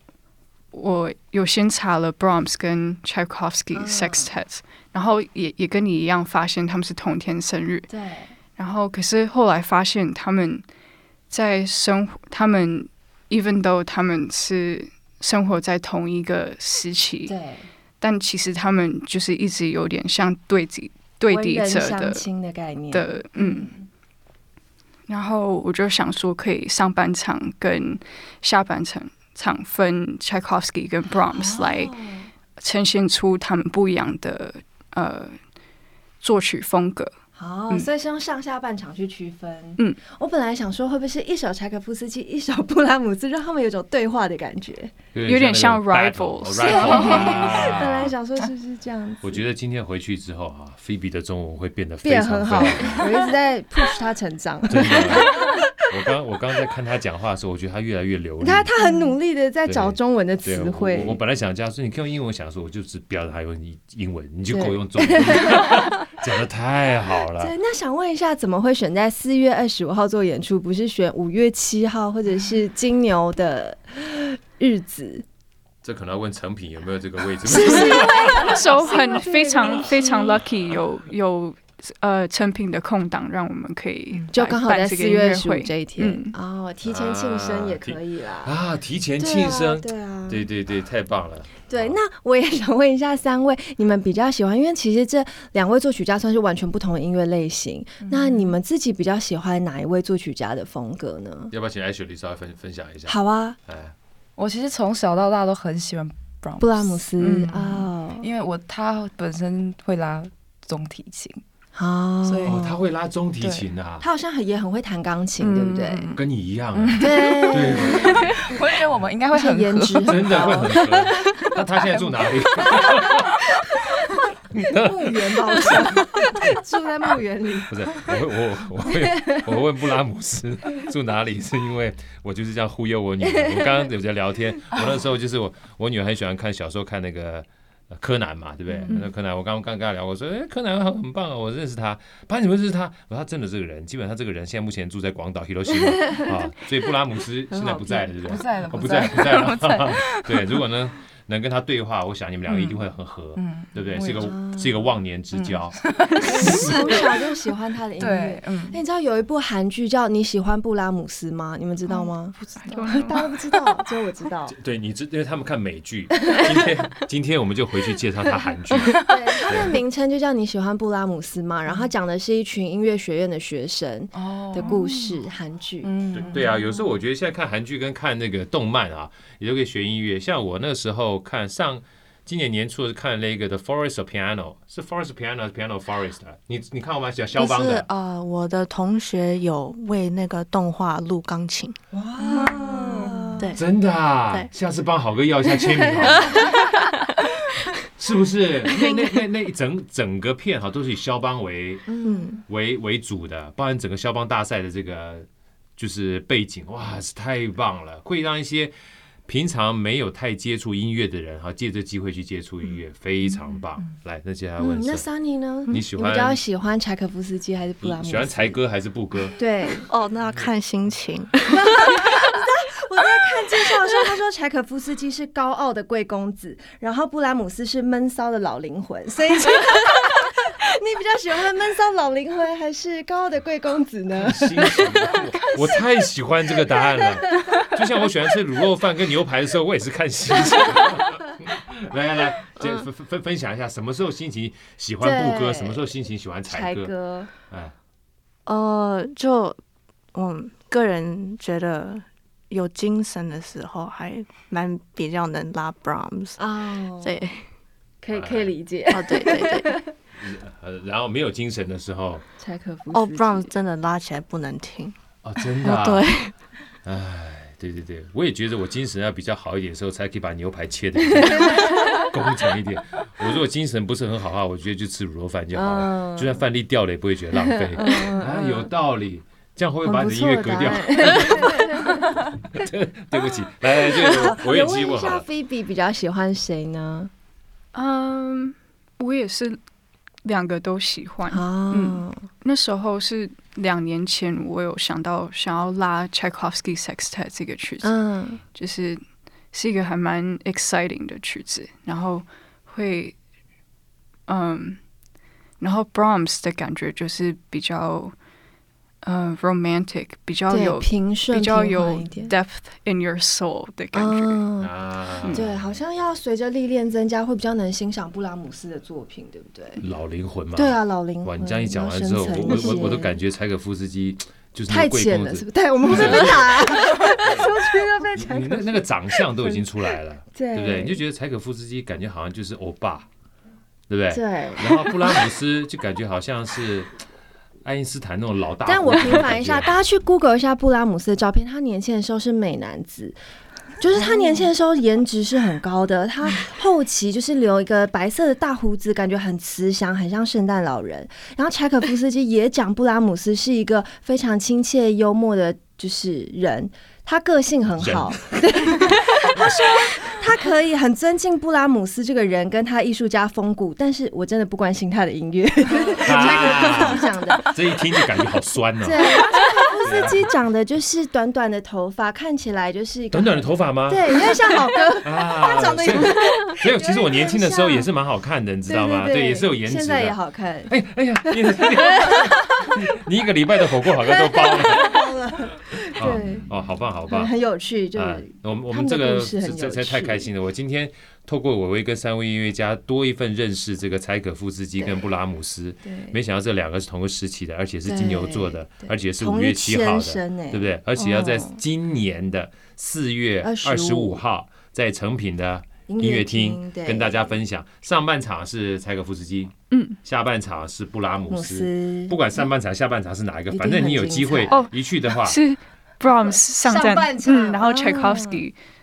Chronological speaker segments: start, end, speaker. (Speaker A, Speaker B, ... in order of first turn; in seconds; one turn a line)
Speaker A: 0.7-7.9
Speaker B: 3.7-4.3
Speaker B: 7.9-8.3
Speaker A: 8.6-10.6
Speaker A: 11.3-17.4
Speaker B: 17.3-17.7
Speaker A: 18.0-22.2
Speaker B: 21.3-23.9
Speaker A: 22.9-23.7
Speaker A: 25.1-31.9
Speaker B: 31.3-32.3
Speaker A: 32.6-35.4
Speaker A: 36.2-37.1
Speaker B: 37.4-44.9
Speaker C: 45.1-48.1
Speaker A: 45.2-47.8
Speaker B: 46.6-49.4
Speaker C: 49.2-53.1
Speaker B: 52.0-55.7
Speaker C: 54.7-55.4
Speaker C: 55.9-58.7
Speaker B: 58.4-61.2
Speaker C: 59.6-67.5
Speaker B: 64.5-66.0
Speaker B: 67.4-75.2
Speaker C: 75.8-78.8
Speaker B: 77.5-80.4
Speaker A: 77.5-86.3
Speaker B: 84.3-88.5
Speaker C: 86.8-92.0
Speaker B: 89.2-90.4
Speaker B: 91.7-101.5
Speaker D: 98.0-98.5
Speaker C: 101.5-103.9
Speaker B: 103.1-103.6
Speaker D: 104.4-111.4
Speaker B: 106.6-108.3
Speaker B: 111.7-112.7
Speaker D: 112.2-112.7
Speaker C: 112.4-114.1
Speaker D: 113.4-113.7
Speaker B: 114.0-116.1
Speaker D: 115.4-116.2
Speaker C: 116.1-118.4
Speaker D: 116.7-122.8
Speaker B: 117.0-118.5
Speaker B: 119.3-121.2
Speaker C: 120.0-123.4
Speaker B: 122.7-123.0
Speaker C: 124.5-126.5
Speaker B: 124.5-128.2
Speaker C: 127.7-157.1
Speaker B: 128.9-129.5
Speaker B: 133.4-133.7
Speaker B: 147.5-148.1
Speaker D: 148.2-150.6
Speaker D: 152.5-152.8
Speaker D: 153.3-154.3
Speaker B: 154.1-154.7
Speaker D: 155.8-157.2
Speaker B: 156.2-162.4
Speaker D: 158.0-158.8
Speaker D: 161.9-163.2
Speaker A: 162.7-163.3
Speaker B: 162.9-164.6
Speaker C: 164.5-169.8
Speaker B: 169.0-175.9
Speaker D: 174.1-175.2
Speaker D: 175.8-176.8
Speaker C: 176.1-187.9
Speaker E: 187.3-191.8
Speaker B: 191.9-193.5
Speaker D: 192.2-193.5
Speaker E: 192.3-192.6
Speaker C: 193.5-196.5
Speaker E: 196.2-197.0
Speaker C: 197.9-201.9
Speaker E: 198.7-199.1
Speaker B: 201.9-202.4
Speaker E: 202.0-202.4
Speaker C: 202.5-208.7
Speaker C: 209.3-215.1
Speaker B: 214.6-218.6
Speaker C: 215.7-216.4
Speaker C: 217.8-219.4
Speaker B: 219.3-219.9
Speaker E: 219.8-222.3
Speaker B: 221.5-235.8
Speaker C: 234.2-246.9
Speaker B: 236.8-237.7
Speaker E: 242.6-242.8
Speaker B: 245.0-245.8
Speaker B: 246.5-247.3
Speaker C: 247.5-247.7
Speaker E: 248.4-249.6
Speaker E: 250.1-257.4
Speaker B: 256.4-257.2
Speaker B: 258.0-259.9
Speaker C: 258.1-258.5
Speaker E: 258.9-259.8
Speaker C: 260.2-262.2
Speaker B: 262.4-263.5
Speaker E: 262.9-264.9
Speaker C: 265.2-266.1
Speaker E: 265.6-266.3
Speaker C: 266.8-281.7
Speaker B: 271.2-272.1
Speaker B: 275.5-276.4
Speaker B: 277.5-278.7
Speaker B: 279.8-282.2
Speaker C: 282.4-285.2
Speaker B: 283.8-287.1
Speaker A: 287.7-289.6
Speaker A: 290.2-298.0
Speaker B: 291.3-292.2
Speaker B: 297.8-298.4
Speaker A: 298.5-303.1
Speaker A: 304.3-304.8
Speaker A: 305.6-308.1
Speaker A: 309.0-314.4
Speaker B: 310.5-312.3
Speaker B: 313.9-314.7
Speaker C: 314.6-315.7
Speaker B: 315.3-319.8
Speaker C: 319.8-327.5
Speaker B: 320.5-323.2
Speaker B: 324.7-328.8
Speaker C: 328.1-333.1
Speaker B: 329.4-329.6
Speaker B: 330.3-331.0
Speaker C: 333.9-336.9
Speaker B: 334.1-335.2
Speaker C: 337.6-339.7
Speaker B: 338.6-343.2
Speaker B: 343.8-367.5
Speaker C: 357.8-358.4
Speaker C: 366.0-369.2
Speaker B: 368.8-377.9
Speaker C: 369.8-370.3
Speaker C: 373.1-374.3
Speaker C: 375.0-385.2
Speaker B: 378.7-380.7
Speaker B: 381.3-382.8
Speaker B: 384.3-386.5
Speaker C: 385.8-387.3
Speaker B: 387.1-390.3
Speaker C: 387.9-415.4
Speaker B: 395.8-396.2
Speaker B: 397.9-401.6
Speaker B: 403.4-404.2
Speaker B: 405.9-407.4
Speaker A: 409.7-410.0
Speaker B: 411.3-412.2
Speaker B: 413.5-414.6
Speaker A: 414.5-418.5
Speaker B: 416.6-418.4